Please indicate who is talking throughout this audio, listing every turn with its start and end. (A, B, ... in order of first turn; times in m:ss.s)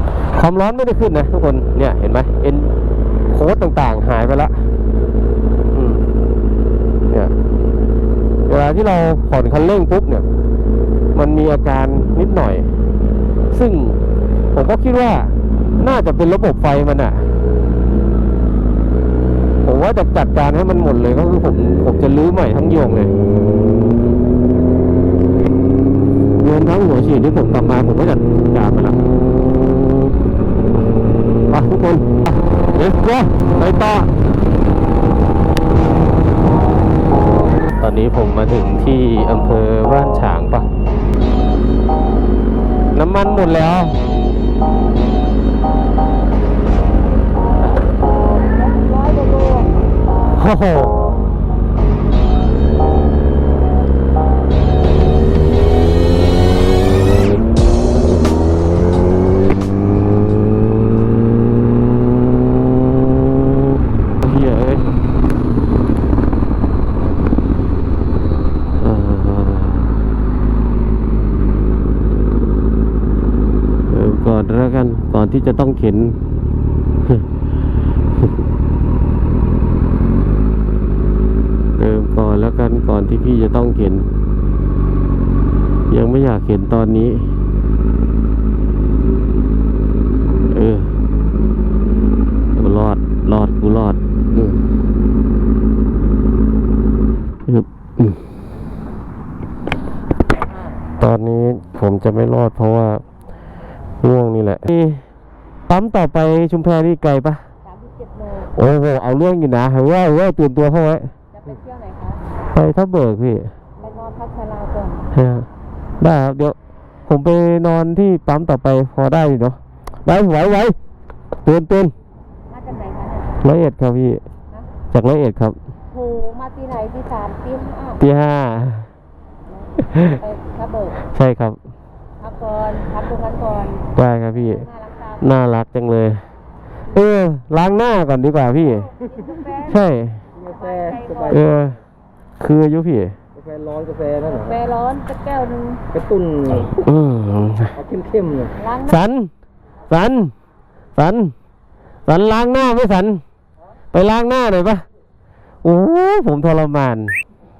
0:00.3-0:02.7 A
0:03.3-0:04.6 A
0:05.7-0:06.0 A
0:08.4-0:10.2 A
0:11.1-0:12.7 A
0:13.5-0:14.0 A
0:14.5-0:17.3 A
0:19.6-0:23.1 A
0:26.4-0:29.0 A
0:31.5-0:34.1 A
0:37.8-0:40.7 A
0:42.9-0:44.0 A
0:48.6-0:49.7 B
0:50.4-0:50.9 A
1:04.2-1:04.9 A
1:08.8-1:09.9 A
1:13.9-1:16.2 A
1:21.8-1:24.1 A
1:25.9-1:27.3 A
1:30.5-1:30.9 A
1:32.5-1:34.6 A
1:37.5-1:38.2 A
1:41.0-1:43.0 A
1:44.0-1:45.0 A
1:45.7-1:47.4 A
1:47.6-1:48.5 C
1:48.5-1:51.1 A
1:51.3-1:52.2 C
1:52.5-1:53.5 A
1:53.8-1:55.1 C
1:55.1-1:55.5 A
1:56.0-1:56.6 A
1:57.1-2:00.8 A
2:01.4-2:01.9 A
2:02.5-2:03.4 C
2:03.4-2:04.2 A
2:04.9-2:05.6 A
2:05.9-2:08.0 C
2:08.0-2:08.9 A
2:09.6-2:11.0 C
2:09.8-2:10.2 A
2:11.1-2:11.6 A
2:12.2-2:13.9 C
2:13.9-2:14.6 A
2:14.4-2:15.2 C
2:15.2-2:16.2 A
2:16.9-2:18.9 A
2:18.8-2:19.8 C
2:19.6-2:20.2 A
2:20.3-2:21.5 C
2:20.4-2:21.3 B
2:21.3-2:21.8 A
2:22.4-2:23.2 A
2:23.4-2:24.5 B
2:24.2-2:25.8 C
2:26.1-2:26.4 B
2:26.5-2:27.8 A
2:28.0-2:28.4 B
2:28.6-2:29.0 C
2:28.8-2:29.3 A
2:29.9-2:30.3 A
2:31.0-2:31.3 A
2:32.1-2:33.2 A
2:33.9-2:34.8 A
2:35.6-2:37.2 A